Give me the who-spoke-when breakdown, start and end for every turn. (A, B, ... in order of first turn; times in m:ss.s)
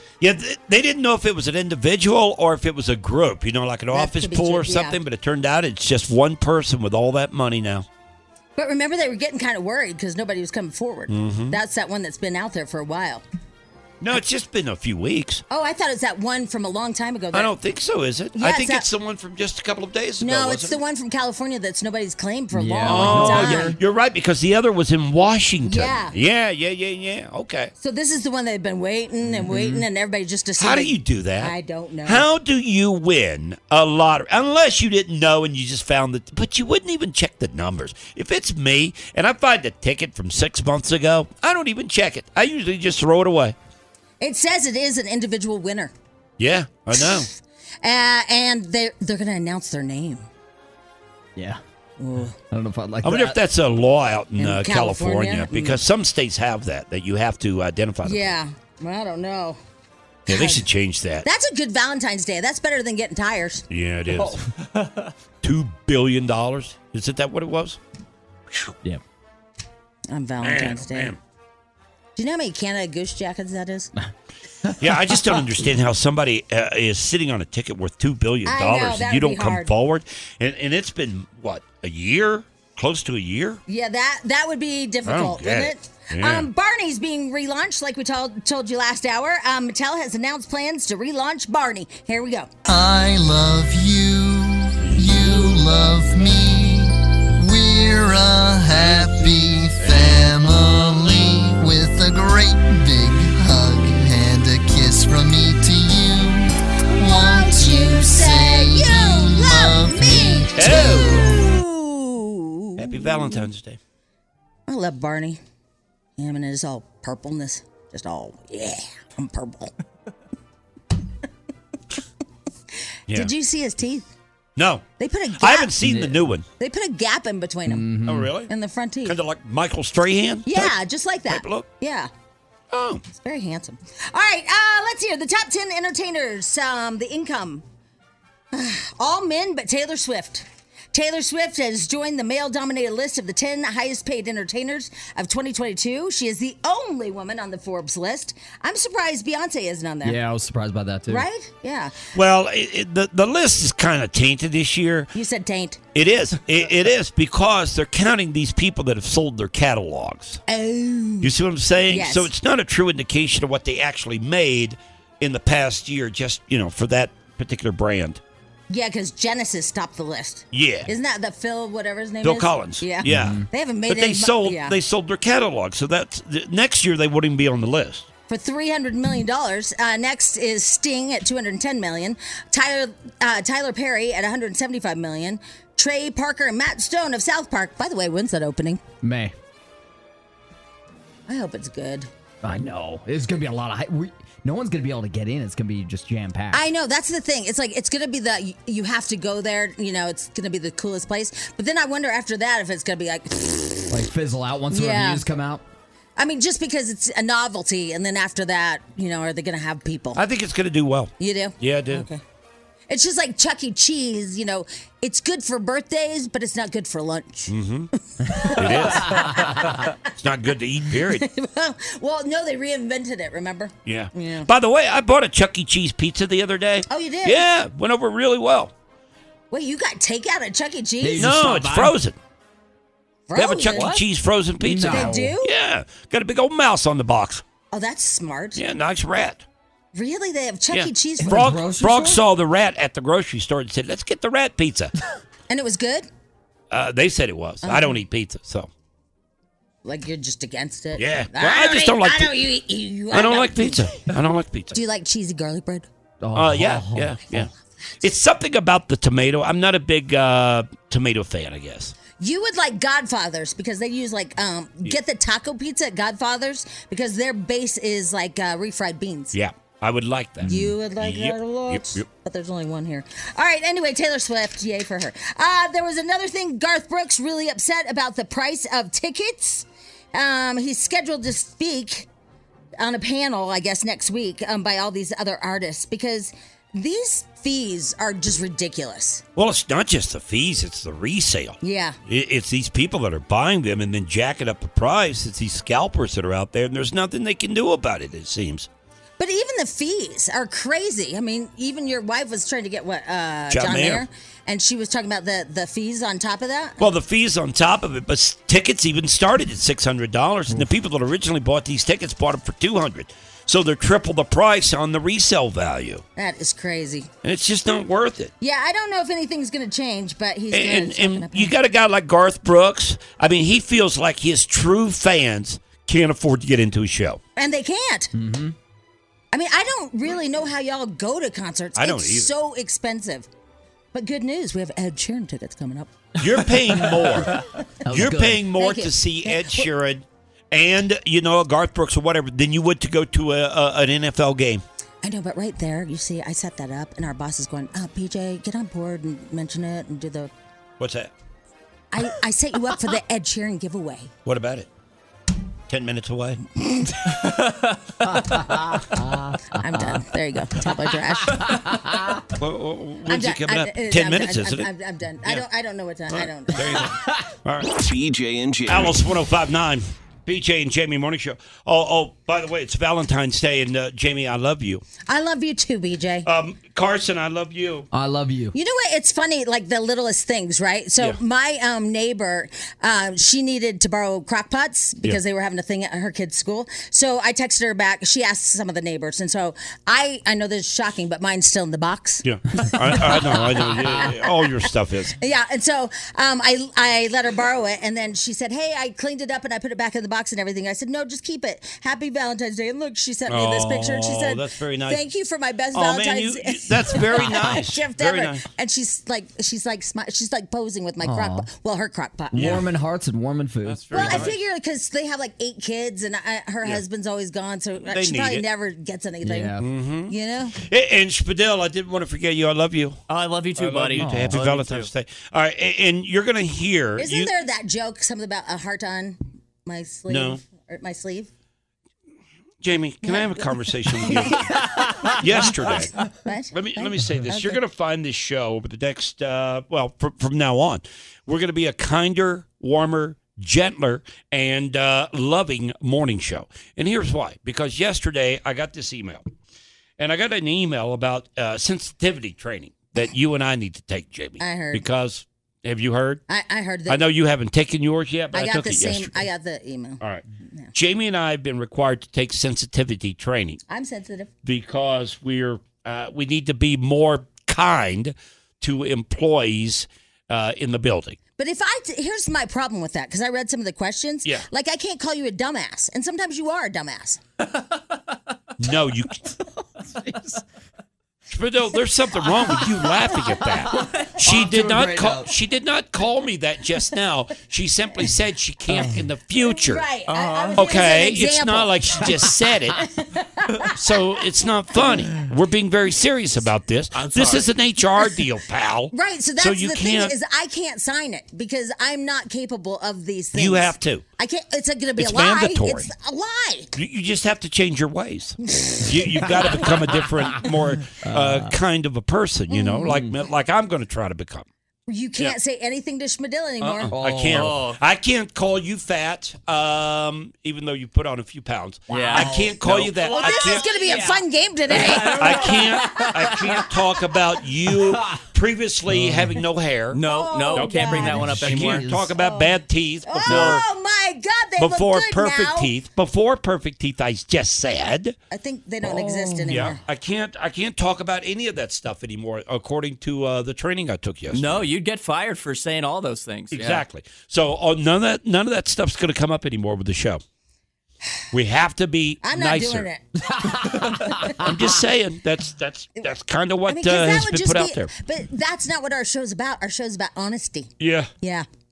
0:00.2-0:07.9 A
0:03.9-0:05.0 B
0:08.6-0:13.2 B
0:11.1-0:11.6 A
0:14.0-0:15.4 A
0:15.5-0:17.5 B
0:17.3-0:20.8 A
0:18.4-0:18.9 B
0:20.2-0:23.8 B
0:22.5-0:23.8 C
0:22.9-0:27.7 A
0:25.6-0:26.2 B
0:27.8-0:32.3 B
0:29.3-0:29.8 C
0:30.6-0:31.5 A
0:32.0-0:43.6 A
0:44.2-0:45.9 B
0:46.4-0:47.3 A
0:47.8-0:50.3 B
0:51.4-0:51.6 C
0:52.0-0:52.4 B
0:52.5-0:53.4 C
0:53.0-0:58.3 A
0:54.4-0:55.8 B
0:58.0-0:59.6 B
1:00.3-1:00.6 B
1:00.3-1:01.3 A
1:01.2-1:03.6 B
1:03.7-1:04.4 A
1:05.4-1:07.8 A
1:10.1-1:11.1 B
1:10.4-1:11.2 A
1:12.2-1:13.9 B
1:14.8-1:23.6 A
1:18.5-1:19.7 B
1:23.7-1:32.5 B
1:25.0-1:26.5 A
1:32.7-1:51.0 D
1:34.8-1:35.4 A
1:47.0-1:53.5 B
1:50.6-1:51.3 A
1:52.8-1:53.8 A
1:54.7-1:55.4 B
1:56.2-1:59.7 B
2:03.1-2:04.1 B
2:04.6-2:04.9 A
2:05.0-2:05.7 B
2:05.4-2:06.4 A
2:05.8-2:06.3 C
2:06.6-2:07.9 B
2:07.7-2:08.3 C
2:08.1-2:08.5 A
2:08.5-2:09.2 B
2:09.0-2:10.7 A
2:10.5-2:12.1 B
2:11.3-2:11.7 A
2:12.7-2:13.0 A
2:13.1-2:17.6 B
2:18.5-2:30.2 B
2:30.0-2:31.2 C
2:31.1-2:32.0 B
2:32.1-2:35.1 A
2:35.1-2:35.8 B
2:36.0-2:40.4 A
2:40.5-2:41.3 B
2:41.2-2:48.2 A
2:41.9-2:42.3 B
2:48.7-2:54.8 B
2:50.5-2:50.9 A
2:52.2-2:58.1 A
2:53.0-2:53.5 C
2:58.3-3:08.8 B
3:09.0-3:09.3 C
3:11.3-3:12.1 B
3:12.4-3:16.6 C
3:16.5-3:24.0 B
3:23.9-3:25.6 C
3:24.7-3:25.2 B
3:26.2-3:30.2 B
3:30.2-3:32.1 A
3:31.2-3:32.2 B
3:32.9-3:37.5 B
3:37.5-3:37.9 A
3:38.2-3:40.0 B
3:38.5-3:39.4 A
3:39.1-3:39.5 C
3:40.1-3:41.2 A
3:41.0-3:44.5 B
3:43.9-3:48.7 A
3:46.9-3:47.5 B
3:49.5-3:51.4 B
3:51.0-3:52.0 C
3:51.2-3:52.2 A
3:53.3-3:54.0 B
3:53.4-3:57.4 A
3:54.6-3:55.4 C
3:54.9-3:55.5 B
3:57.7-3:58.6 B
3:58.6-3:59.4 A
3:59.9-4:01.6 B
4:00.7-4:04.9 A
4:01.2-4:02.2 C
4:05.5-4:06.1 B
4:06.7-4:08.7 A
4:07.6-4:08.0 B
4:09.8-4:13.8 B
4:11.0-4:12.3 A
4:13.1-4:14.8 A
4:14.7-4:15.9 B
4:16.2-4:17.1 C
4:16.4-4:17.5 A
4:18.0-4:22.0 A
4:22.2-4:29.3 B
4:29.3-4:32.0 A
4:30.4-4:30.7 C
4:30.4-4:42.1 B
4:42.8-4:49.2 B
4:49.4-4:58.7 A
4:51.6-4:52.0 B
4:59.2-5:06.8 B
5:03.5-5:04.0 A
5:06.8-5:16.0 A
5:16.2-5:17.1 B
5:17.2-5:18.3 A
5:18.4-5:21.5 B
5:20.5-5:27.2 A
5:27.4-5:28.1 B
5:28.1-5:28.6 C
5:29.3-5:33.3 B
5:31.8-5:32.3 A
5:33.9-5:35.9 B
5:36.2-5:44.6 A
5:36.8-5:37.1 C
5:37.8-5:38.4 C
5:38.6-5:39.7 B
5:45.0-5:50.3 B
5:50.8-5:51.1 A
5:51.9-5:54.1 B
5:54.3-5:54.7 A
5:55.7-5:56.4 A
5:56.6-5:57.1 B
5:57.2-5:57.8 E
5:58.1-6:00.0 C
5:59.6-6:01.8 B
6:01.3-6:02.2 C
6:02.3-6:04.7 A
6:03.1-6:06.9 B
6:06.1-6:07.8 A
6:07.8-6:09.0 D
6:08.7-6:14.8 A
6:15.1-6:16.3 B
6:16.2-6:17.9 A
6:17.9-6:18.6 C
6:18.5-6:34.5 B
6:32.2-6:35.2 A
6:35.2-6:52.7 B
6:43.3-6:45.0 A
6:45.7-6:48.4 A
6:51.0-6:51.5 C
6:52.3-6:54.3 C
6:52.4-6:52.6 A
6:53.6-6:54.4 A
6:53.9-6:59.6 B
6:57.9-6:58.4 A
6:59.2-6:59.6 C
6:59.6-7:03.0 A
7:00.1-7:00.6 B
7:03.1-7:04.9 E
7:03.6-7:07.3 A
7:04.0-7:04.4 C
7:07.0-7:11.3 B
7:10.1-7:10.4 A
7:12.6-7:16.0 A
7:13.0-7:17.6 B
7:16.5-7:29.3 A
7:30.0-7:36.2 A
7:34.4-7:34.8 B
7:36.3-7:37.0 B
7:36.9-7:39.2 A
7:38.3-7:40.0 B
7:40.7-7:43.6 A
7:43.7-7:44.3 B
7:44.4-7:51.2 A
7:51.4-7:57.2 B
7:58.6-7:59.2 A
8:00.0-8:00.4 E
8:01.3-8:09.8 A
8:04.0-8:05.3 C
8:09.4-8:12.1 B
8:10.1-8:10.7 E
8:10.6-8:12.8 A
8:12.8-8:13.7 B
8:13.7-8:20.1 A
8:16.9-8:17.5 E
8:18.9-8:26.7 B
8:23.3-8:24.0 A
8:25.0-8:25.9 A
8:26.8-8:34.5 A
8:28.5-8:29.3 B
8:31.0-8:31.5 C
8:32.5-8:33.0 B
8:34.9-8:36.9 B
8:36.6-8:43.7 A
8:36.9-8:37.6 C
8:37.3-8:37.8 E
8:41.9-8:46.6 E
8:41.9-8:42.6 C
8:43.1-8:46.4 B
8:45.2-8:50.0 A
8:48.9-8:49.4 C
8:49.9-8:52.1 E
8:50.0-8:51.3 B
8:50.5-8:53.6 A
8:50.9-8:52.1 C
8:52.2-8:52.6 B
8:53.1-8:55.7 B
8:54.6-8:58.2 A
8:58.3-8:59.8 B
8:58.9-8:59.6 C
8:59.5-9:04.7 A
9:04.3-9:06.8 E
9:06.5-9:10.2 A
9:11.3-9:12.9 A
9:12.2-9:13.3 B
9:13.4-9:13.9 C
9:14.2-9:17.9 A
9:16.7-9:21.5 B
9:20.8-9:21.1 A